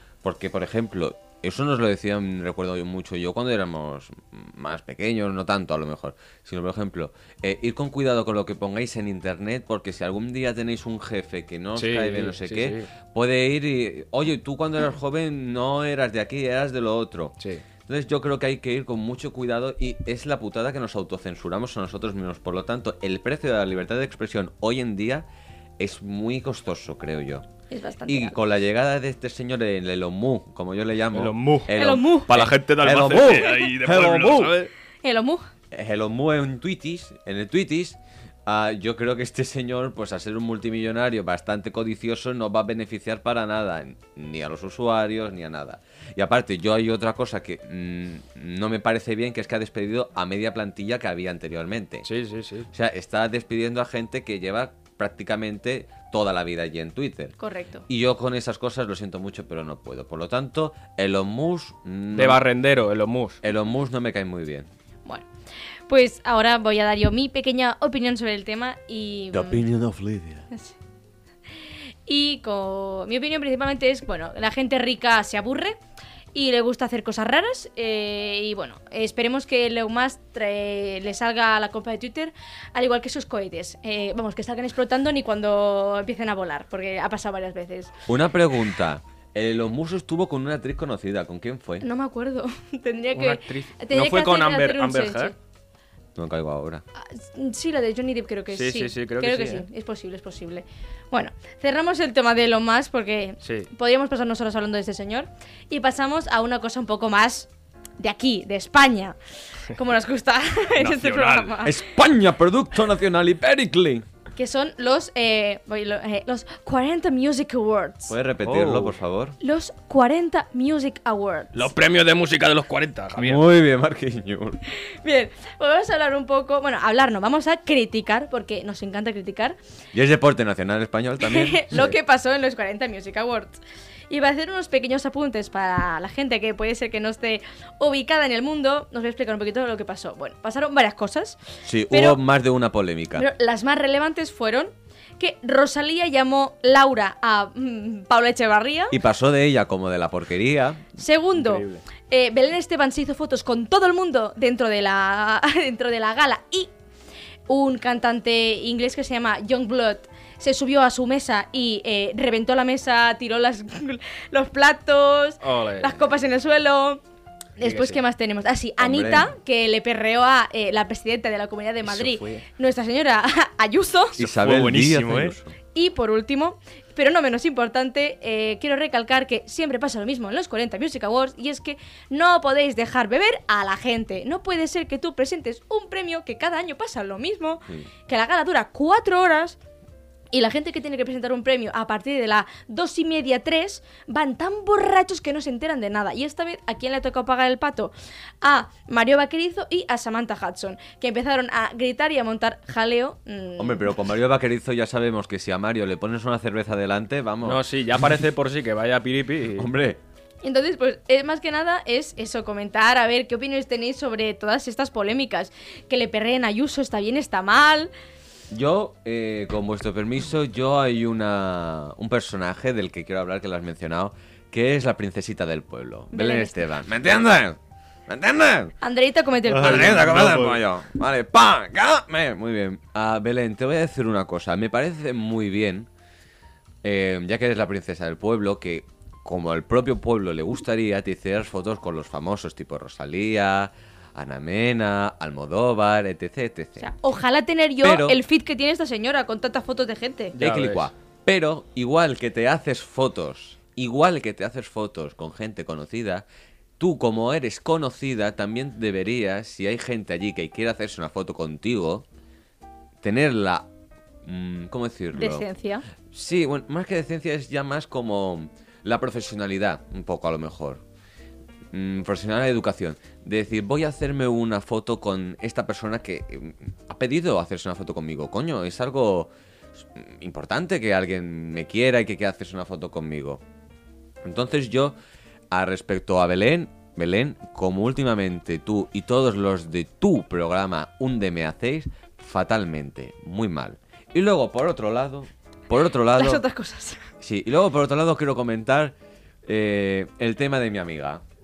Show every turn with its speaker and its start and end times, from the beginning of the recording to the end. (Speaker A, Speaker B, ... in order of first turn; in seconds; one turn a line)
Speaker A: 0.2-17.4
Speaker B: 11.8-12.9
Speaker B: 17.4-17.6
Speaker A: 17.9-25.3
Speaker A: 25.8-27.4
Speaker C: 27.7-28.4
Speaker A: 28.1-34.6
Speaker B: 31.1-31.7
Speaker C: 31.8-32.3
Speaker B: 32.3-34.7
Speaker C: 35.0-35.5
Speaker A: 35.7-52.1
Speaker B: 52.0-52.7
Speaker A: 52.7-57.4
Speaker C: 57.4-57.8
Speaker A: 57.9-62.4
Speaker B: 62.1-63.4
Speaker A: 63.4-64.7
Speaker C: 65.9-69.7
Speaker A: 69.3-70.5
Speaker C: 72.1-75.8
Speaker C: 76.3-87.9
Speaker A: 88.1-91.8
Speaker C: 91.8-95.3
Speaker B: 93.1-95.3
Speaker A: 96.2-96.8
Speaker C: 97.0-107.5
Speaker B: 98.5-99.7
Speaker B: 103.4-103.7
Speaker C: 108.0-111.8
Speaker B: 110.8-111.6
Speaker A: 111.6-114.1
Speaker C: 114.4-118.2
Speaker A: 118.1-119.4
Speaker B: 118.4-119.0
Speaker C: 119.4-121.7
Speaker B: 121.5-123.4
Speaker A: 123.2-124.6
Speaker C: 125.0-129.6
Speaker A: 129.9-131.9
Speaker C: 131.2-141.4
Speaker A: 141.7-143.3
Speaker C: 141.9-142.2
Speaker C: 143.2-149.0
Speaker A: 148.9-150.8
Speaker C: 151.0-156.7
Speaker B: 151.4-151.8
Speaker C: 157.5-167.0
Speaker B: 165.4-166.1
Speaker C: 167.6-174.2
Speaker B: 167.6-168.0
Speaker A: 168.8-169.3
Speaker B: 171.9-172.4
Speaker A: 174.2-175.5
Speaker B: 174.2-175.4
Speaker C: 175.8-189.6
Speaker C: 190.3-203.9
Speaker A: 203.6-207.6
Speaker B: 207.4-209.7
Speaker A: 209.6-210.0
Speaker C: 210.4-217.9
Speaker A: 218.5-228.7
Speaker C: 226.1-226.6
Speaker C: 228.8-230.1
Speaker A: 229.5-235.9
Speaker B: 229.6-230.6
Speaker A: 236.8-246.9
Speaker C: 246.8-250.4
Speaker A: 247.8-248.2
Speaker B: 250.4-250.9
Speaker A: 250.4-256.2
Speaker A: 256.8-262.1
Speaker A: 263.0-263.7
Speaker A: 264.2-265.4
Speaker C: 265.1-265.9
Speaker A: 266.1-270.8
Speaker A: 271.7-283.4
Speaker A: 284.2-285.0
Speaker A: 285.5-296.4
Speaker C: 296.1-297.0
Speaker A: 297.2-301.2